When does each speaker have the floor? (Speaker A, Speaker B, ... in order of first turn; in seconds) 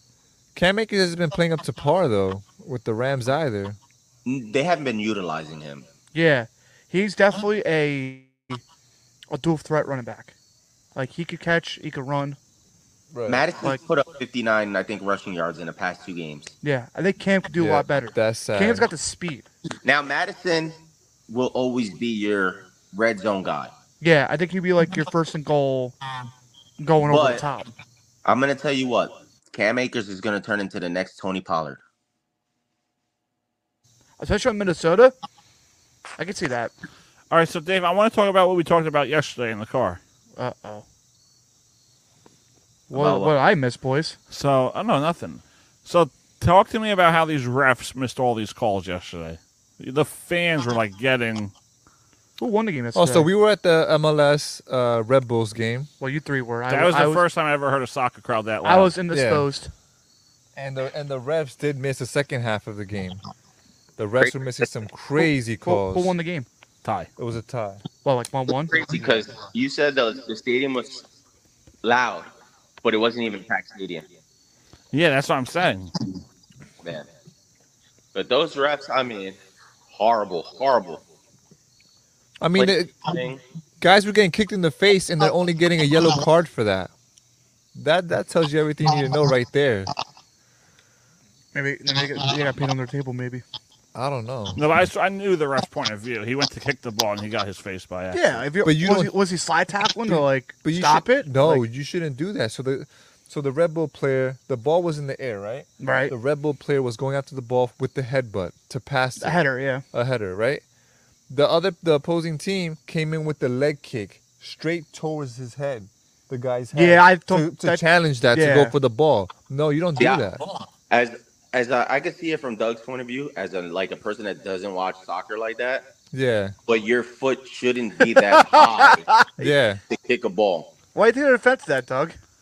Speaker A: 0.6-3.8, 13.1-13.4, 17.6-18.9, 53.0-55.9, 59.1-59.5, 60.6-63.2, 64.0-66.1, 67.2-67.8, 82.4-83.0, 83.8-86.9, 87.8-89.9, 94.0-94.6, 98.6-99.1, 100.1-109.4, 109.9-110.6, 111.3-120.4, 126.1-126.5, 129.4-129.8
Speaker B: 4.2-5.9, 13.3-16.5, 19.8-23.7, 27.0-27.4, 28.2-31.8, 42.9-43.3, 64.2-64.7, 68.7-71.0, 71.8-72.3, 72.8-74.1, 76.8-77.1, 78.1-79.4, 79.9-81.0, 82.5-83.4, 120.0-120.3, 120.9-125.9, 126.7-129.1, 129.9-130.7
Speaker C: 6.1-8.6, 9.3-10.3, 10.9-12.4, 16.6-19.5, 24.0-26.0, 26.8-27.7, 34.2-35.1, 36.2-36.7, 40.4-40.8, 42.9-44.2, 52.4-53.3, 56.0-57.2, 58.6-59.7, 65.2-66.5, 68.0-68.9, 91.5-93.4, 98.1-101.7, 105.8-106.1, 109.2-109.8, 116.7-118.8, 128.0-129.5, 130.9-132.2
Speaker D: 37.3-40.0, 44.3-51.5, 56.7-58.9, 66.8-67.1, 74.9-75.9, 94.6-98.4